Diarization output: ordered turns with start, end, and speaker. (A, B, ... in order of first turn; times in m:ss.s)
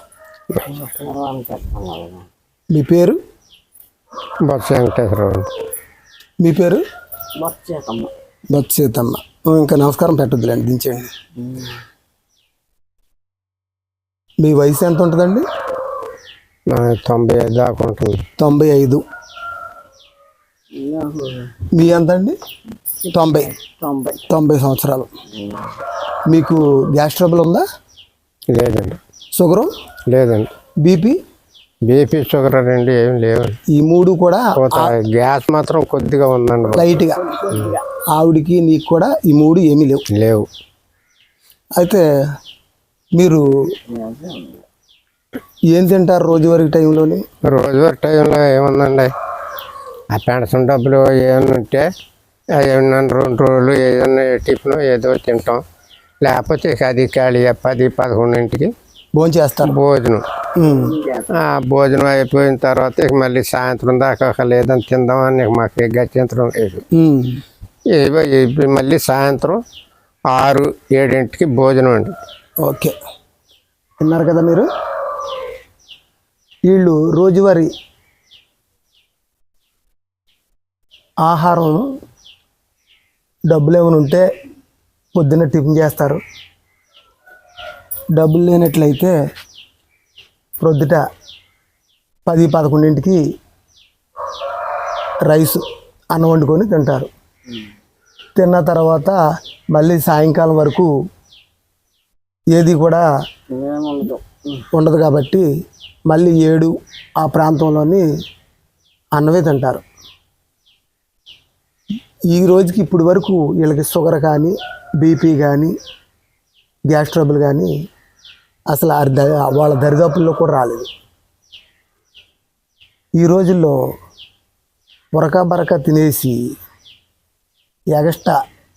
0:00.6-0:02.2 A
0:02.7-0:03.2 B
0:04.4-0:05.5 C
0:06.4-0:06.8 B
0:07.4-0:08.1 A
0:08.5-0:11.1 B
0:11.4-0:11.8 A
0:14.4-0:15.4 B
0:16.7-0:18.2 C
0:18.4-0:19.0 B
0:20.7-0:21.6 A
0:21.7-0:22.4 B
0:23.0-0:24.2 A
0:23.1-0:23.5 B
0:24.3-0:25.1 B
0:25.4-0:25.7 A
0:26.3-0:27.6 B
0:28.5-0:29.0 C
0:29.3-0:29.7 B
0:30.1-0:30.5 C
0:30.8-0:31.2 B
0:31.8-0:33.6 C
0:33.7-0:34.9 B
0:34.5-0:36.9 C
0:36.7-0:37.2 B
0:37.0-0:37.8 A
0:38.1-0:40.0 B
0:40.1-0:40.5 C
0:41.8-0:42.0 B
0:43.2-0:43.4 B
0:43.9-0:44.6 A
0:45.7-0:47.2 B
0:47.4-0:49.1 C
0:50.1-0:51.9 C
0:52.6-0:55.6 C
0:56.2-0:58.7 C
0:59.1-0:59.8 B
0:59.6-1:00.2 C
1:00.6-1:01.0 B
1:00.7-1:01.3 A
1:01.3-1:06.8 C
1:06.9-1:07.4 B
1:07.9-1:09.6 C
1:10.3-1:12.2 C
1:12.6-1:12.9 B
1:14.0-1:14.7 B
1:16.7-1:17.7 B
1:21.2-1:21.8 B
1:23.5-1:24.2 B
1:25.1-1:26.2 B
1:28.2-1:29.1 B
1:30.6-1:31.0 B
1:32.2-1:33.2 B
1:35.3-1:37.1 B
1:38.4-1:39.2 B
1:39.7-1:40.9 B
1:42.5-1:43.0 B
1:43.5-1:44.7 A
1:44.7-1:45.4 B
1:46.1-1:48.0 B
1:49.1-1:49.8 B
1:52.3-1:55.7 B
1:56.9-1:57.7 B
1:58.7-2:00.9 B
2:03.2-2:03.8 B
2:05.1-2:06.4 B
2:07.9-2:08.4 B